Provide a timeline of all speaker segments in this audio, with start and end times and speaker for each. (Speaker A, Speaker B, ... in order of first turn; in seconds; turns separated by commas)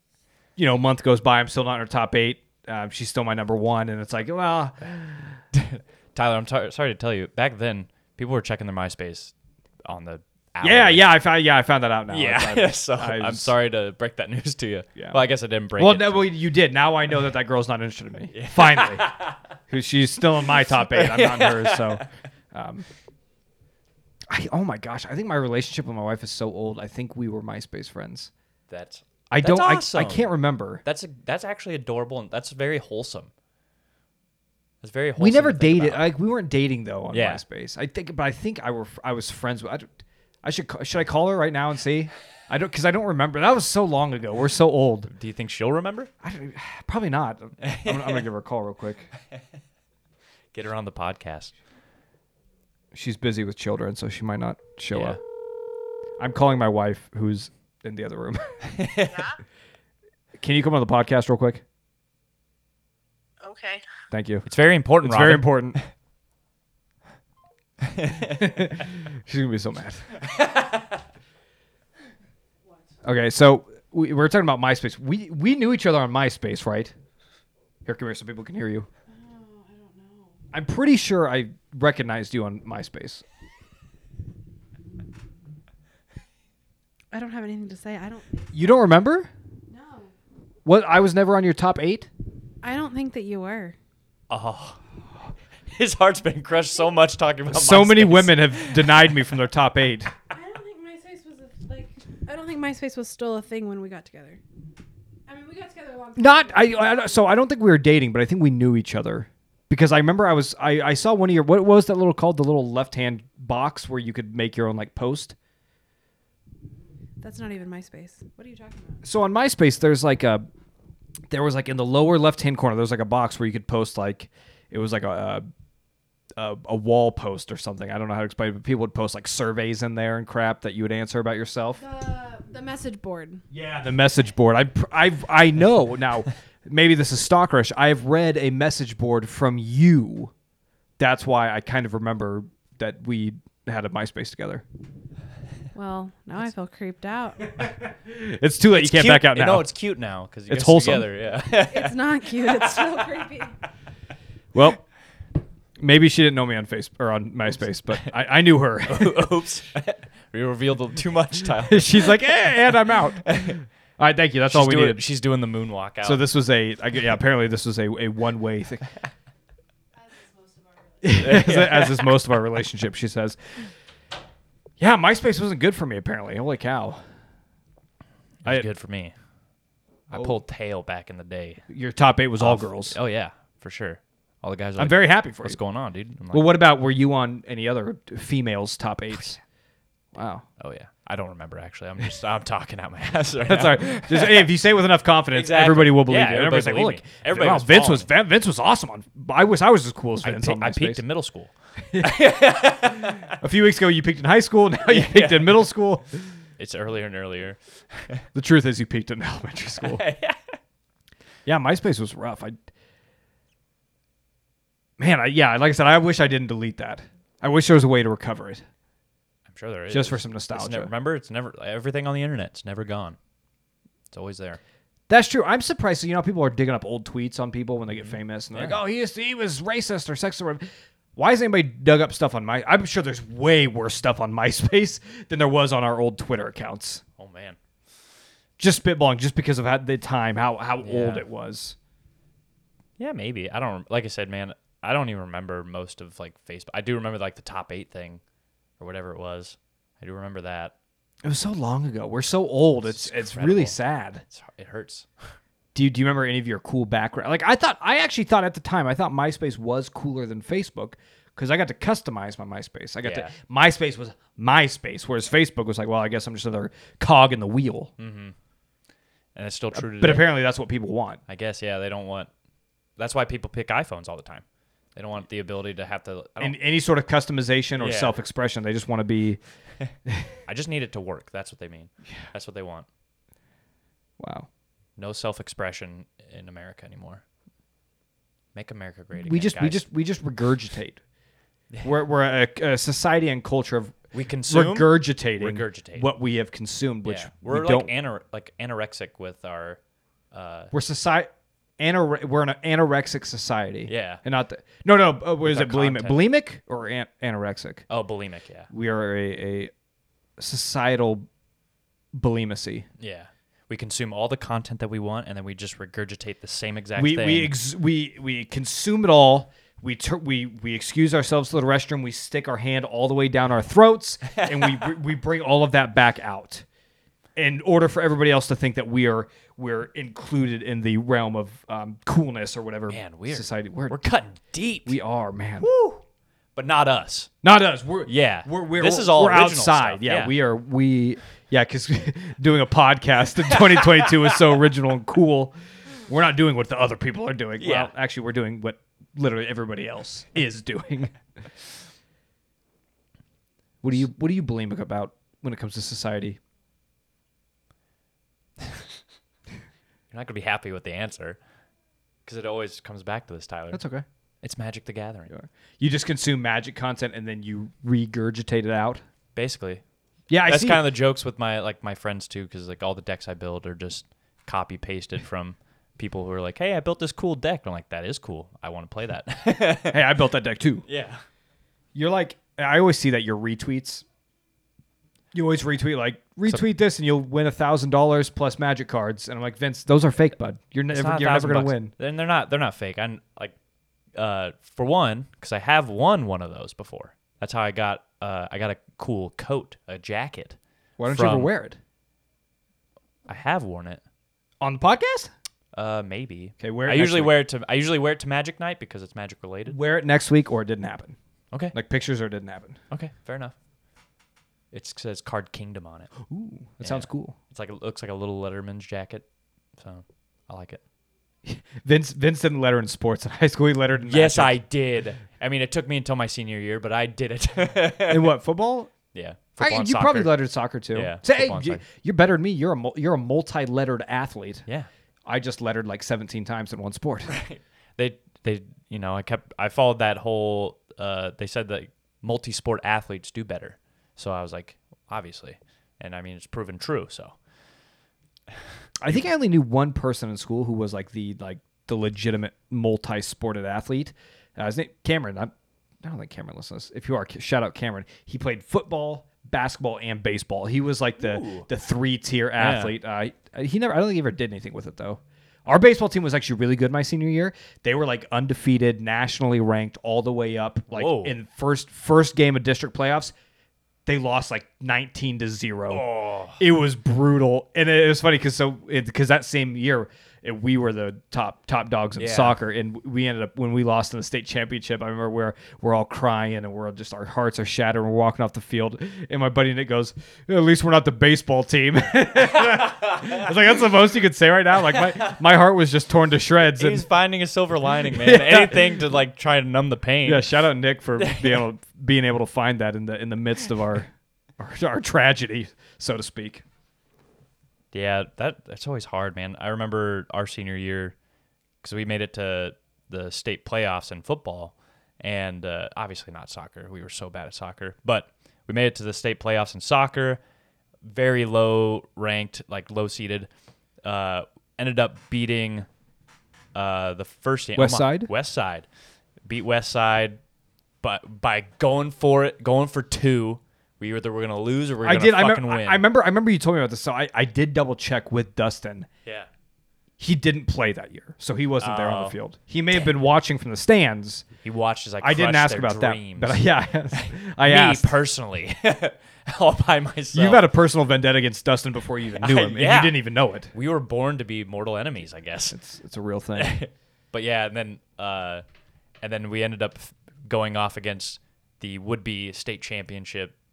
Speaker A: 0.6-5.4, Speaker B: 5.5-9.3, Speaker B: 9.9-11.1, Speaker A: 10.6-13.5, Speaker B: 12.1-16.3, Speaker A: 15.8-19.1, Speaker B: 18.3-19.4, Speaker A: 19.7-22.9, Speaker B: 20.7-22.1, Speaker A: 24.3-28.3, Speaker B: 28.7-30.3, Speaker A: 29.3-30.8, Speaker B: 30.8-33.3, Speaker B: 34.8-36.1, Speaker A: 35.2-39.9, Speaker B: 37.1-37.4, Speaker A: 40.4-45.1, Speaker B: 45.1-46.1, Speaker A: 46.2-49.1, Speaker B: 47.6-48.2, Speaker B: 50.5-51.5, Speaker A: 52.9-55.2, Speaker B: 54.9-55.2, Speaker A: 56.2-58.6, Speaker B: 58.7-59.4, Speaker A: 60.4-61.6, Speaker C: 63.5-63.8, Speaker A: 64.1-64.5, Speaker B: 64.5-65.9, Speaker A: 65.0-65.8, Speaker B: 67.8-68.5, Speaker A: 68.2-70.1, Speaker B: 70.2-70.9, Speaker A: 73.0-76.9, Speaker A: 77.9-78.9, Speaker C: 79.1-80.4, Speaker A: 80.5-83.2, Speaker C: 87.1-88.5, Speaker A: 88.5-89.3, Speaker C: 89.7-90.1, Speaker A: 90.6-92.1, Speaker C: 92.6-93.8, Speaker B: 94.3-94.8, Speaker B: 95.7-99.3, Speaker A: 97.5-100.1, Speaker C: 100.3-104.4, Speaker C: 105.3-107.2, Speaker A: 106.2-115.4, Speaker C: 117.2-119.0, Speaker A: 119.0-120.4, Speaker A: 121.3-125.4, Speaker A: 126.4-131.8, Speaker C: 131.8-133.4, Speaker A: 133.5-140.3, Speaker A: 141.0-144.6, Speaker C: 145.7-147.6, Speaker A: 147.6-149.7, Speaker B: 148.7-153.2, Speaker A: 150.5-151.1, Speaker C: 151.5-153.6, Speaker A: 154.5-154.8, Speaker A: 155.8-159.3, Speaker B: 158.9-162.5, Speaker A: 161.7-165.0, Speaker B: 163.2-163.6, Speaker B: 164.5-166.2, Speaker A: 166.0-168.9, Speaker C: 170.1-171.0, Speaker A: 171.0-173.6, Speaker B: 171.1-172.3, Speaker A: 174.8-177.0, Speaker B: 178.4-179.1, Speaker B: 180.1-181.6, Speaker A: 181.7-182.9, Speaker B: 182.4-186.6, Speaker A: 184.8-185.6, Speaker A: 186.3-189.4, Speaker A: 190.1-190.4, Speaker B: 190.6-194.5, Speaker A: 193.4-201.0, Speaker B: 195.3-198.1, Speaker B: 200.2-203.3, Speaker A: 201.9-202.2, Speaker A: 203.3-206.1, Speaker B: 204.9-205.7, Speaker B: 206.6-208.2, Speaker A: 208.3-210.0, Speaker B: 209.8-210.6, Speaker A: 211.4-212.6, Speaker A: 215.0-218.6, Speaker B: 219.5-223.2, Speaker A: 219.9-220.9, Speaker B: 224.1-224.6, Speaker A: 225.1-230.6, Speaker B: 227.9-228.8, Speaker A: 231.2-237.0, Speaker B: 237.2-237.6, Speaker A: 238.6-241.8, Speaker B: 240.8-241.2, Speaker B: 243.0-248.2, Speaker B: 248.8-250.7, Speaker A: 251.2-254.2, Speaker B: 252.8-255.3, Speaker A: 255.8-267.9, Speaker B: 263.0-263.3, Speaker B: 268.0-268.4, Speaker B: 269.4-270.3, Speaker A: 269.7-271.2, Speaker B: 271.3-272.3, Speaker B: 273.0-274.4, Speaker B: 275.0-276.6, Speaker A: 276.4-279.4, Speaker B: 277.8-278.2, Speaker B: 280.5-282.9, Speaker A: 284.2-284.5, Speaker B: 285.0-287.2, Speaker B: 288.5-289.9, Speaker A: 289.2-291.0, Speaker A: 291.8-297.9, Speaker B: 294.1-296.1, Speaker B: 297.0-299.8, Speaker B: 300.3-300.7, Speaker A: 300.7-307.9, Speaker B: 303.9-304.2, Speaker B: 305.4-306.2, Speaker B: 307.9-308.7, Speaker A: 308.7-309.7, Speaker A: 310.4-311.3, Speaker A: 312.1-312.9, Speaker B: 313.0-317.5, Speaker A: 317.0-326.6, Speaker B: 324.3-324.8, Speaker A: 327.4-334.0, Speaker B: 332.9-335.0, Speaker A: 334.9-335.7, Speaker B: 335.6-336.0, Speaker B: 336.6-337.3, Speaker A: 337.4-345.5, Speaker B: 338.1-340.3, Speaker B: 343.5-344.4, Speaker A: 346.1-351.1, Speaker B: 347.6-347.9, Speaker A: 353.8-356.4, Speaker B: 360.1-361.4, Speaker B: 362.2-363.8, Speaker A: 363.7-364.0, Speaker B: 364.4-365.3, Speaker A: 365.3-369.0, Speaker B: 369.4-369.8, Speaker A: 370.3-370.8, Speaker B: 370.4-380.0, Speaker A: 379.9-380.8, Speaker B: 380.9-381.2, Speaker A: 381.9-384.0, Speaker A: 385.3-391.9, Speaker B: 390.9-393.5, Speaker B: 394.1-400.6, Speaker A: 401.0-401.8, Speaker B: 401.1-401.5, Speaker B: 403.3-404.0, Speaker A: 404.6-405.3, Speaker B: 405.7-409.8, Speaker A: 406.6-407.4, Speaker A: 409.7-411.1, Speaker A: 411.7-412.8, Speaker B: 412.9-413.5, Speaker B: 414.7-416.1, Speaker A: 416.3-417.4, Speaker B: 416.8-419.2, Speaker B: 419.8-420.8, Speaker A: 421.4-424.6, Speaker B: 424.1-428.3, Speaker A: 428.1-428.9, Speaker B: 429.1-430.3, Speaker A: 429.6-434.6, Speaker B: 430.9-431.8, Speaker A: 435.2-437.3, Speaker B: 437.3-447.4, Speaker A: 449.0-473.3, Speaker B: 461.2-461.7, Speaker B: 462.6-462.9, Speaker B: 470.9-471.4, Speaker A: 474.1-497.1, Speaker B: 475.9-476.6, Speaker B: 482.2-482.6, Speaker B: 496.8-500.5, Speaker A: 498.0-499.1, Speaker A: 500.2-506.6, Speaker B: 501.2-501.6, Speaker B: 507.9-511.1, Speaker B: 511.8-520.4, Speaker B: 521.0-523.5, Speaker B: 524.0-525.9, Speaker B: 526.8-528.9, Speaker A: 527.8-528.3, Speaker B: 529.5-530.4, Speaker B: 531.0-536.0, Speaker A: 535.0-539.1, Speaker A: 540.2-544.5, Speaker B: 541.8-542.4, Speaker B: 544.6-550.6, Speaker A: 545.2-548.1, Speaker A: 550.3-553.7, Speaker B: 552.4-555.8, Speaker A: 555.7-556.8, Speaker B: 556.6-558.6, Speaker B: 559.2-563.5